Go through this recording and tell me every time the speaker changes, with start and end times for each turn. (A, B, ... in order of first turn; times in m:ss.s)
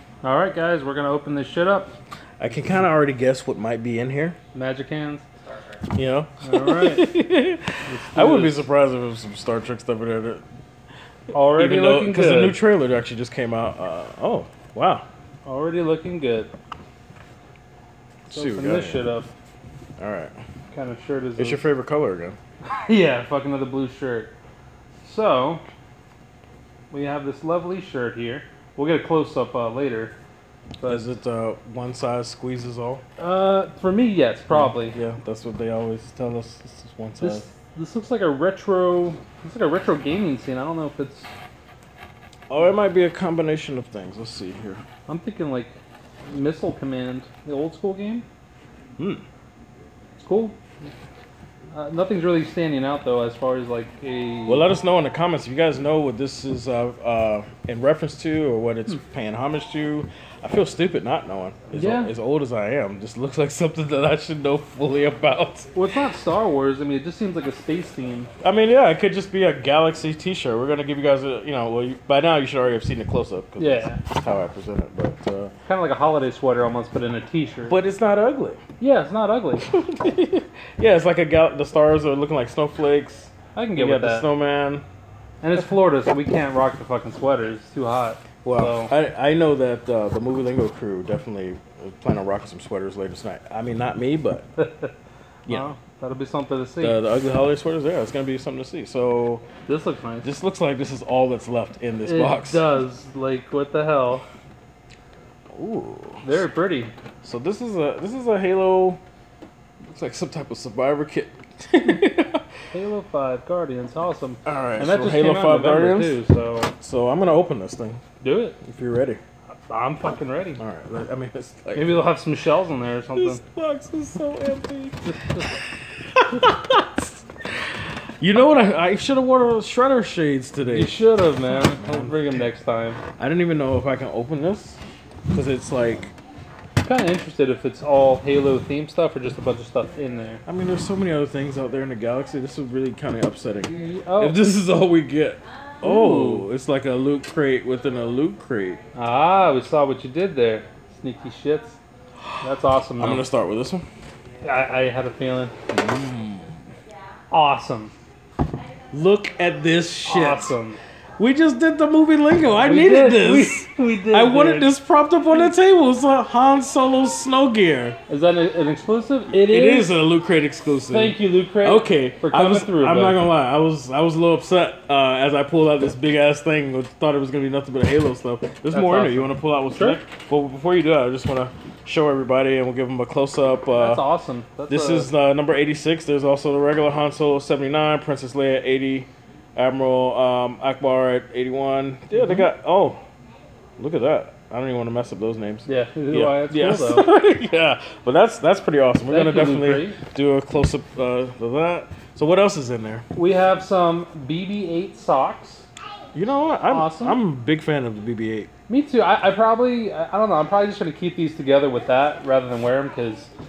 0:00.2-0:02.0 A
0:02.4-0:04.4 B
0:04.5-0:05.3 A
0:06.0-0:10.4 B
0:06.4-0:07.1 A
0:07.9-0:08.7 A
0:11.3-0:12.6 A
0:11.6-0:15.0 B
0:15.5-0:16.5 A
0:18.3-0:19.0 B
0:18.3-0:19.3 A
0:20.0-0:20.3 B
0:20.7-0:21.7 A
0:21.4-0:22.4 B
0:22.7-0:24.3 A
0:25.0-0:25.6 A
0:26.9-0:30.1 A
0:30.8-0:31.1 A
0:30.8-0:33.0 B
0:33.2-0:35.0 A
0:34.5-0:37.5 B
0:37.2-0:41.3 A
0:42.5-0:44.8 B
0:45.1-0:45.8 A
0:46.3-0:48.2 A
0:49.0-0:49.2 B
0:50.2-0:50.6 A
0:51.7-0:54.6 A
0:54.5-1:05.7 B
1:01.7-1:02.1 A
1:05.8-1:08.3 A
1:08.4-1:15.5 B
1:13.6-1:14.0 A
1:15.7-1:17.8 A
1:17.7-1:18.6 B
1:18.8-1:19.7 A
1:19.6-1:24.8 B
1:23.6-1:24.3 A
1:25.4-1:28.9 A
1:28.4-1:34.5 B
1:34.6-1:34.9 A
1:35.5-1:37.0 A
1:36.8-1:39.5 B
1:39.7-1:40.3 A
1:40.2-1:42.7 B
1:42.0-1:44.2 A
1:45.5-1:46.2 B
1:46.2-1:46.9 A
1:47.2-1:49.0 B
1:49.9-1:52.4 B
1:52.7-1:56.7 A
1:54.4-1:56.2 B
1:56.8-1:58.0 B
1:58.2-1:58.6 A
1:58.6-1:59.2 B
1:59.7-2:00.6 A
2:00.6-2:02.0 B
2:01.8-2:03.4 A
2:03.2-2:05.0 B
2:05.1-2:05.5 A
2:06.1-2:07.1 B
2:08.2-2:11.0 B
2:10.7-2:13.0 A
2:11.8-2:12.4 B
2:13.2-2:14.8 B
2:15.3-2:16.1 B
2:16.8-2:20.4 A
2:20.5-2:28.8 B
2:23.7-2:24.4 A
2:25.8-2:26.5 A
2:29.0-2:31.8 A
2:32.4-2:33.3 A
2:33.0-2:33.8 B
2:34.4-2:35.5 A
2:35.7-2:36.6 B
2:37.3-2:37.9 A
2:38.9-2:40.5 B
2:40.0-2:40.8 A
2:41.2-2:48.0 B
2:42.6-2:44.7 A
2:48.1-2:50.0 A
2:49.3-3:04.0 B
2:50.9-2:53.2 A
2:58.7-3:00.0 A
3:03.7-3:05.1 A
3:04.7-3:13.0 B
3:12.1-3:12.5 A
3:13.8-3:23.0 B
3:15.7-3:17.1 A
3:19.1-3:20.0 A
3:23.2-3:25.6 A
3:26.1-3:28.5 B
3:26.7-3:27.2 A
3:28.7-3:33.3 A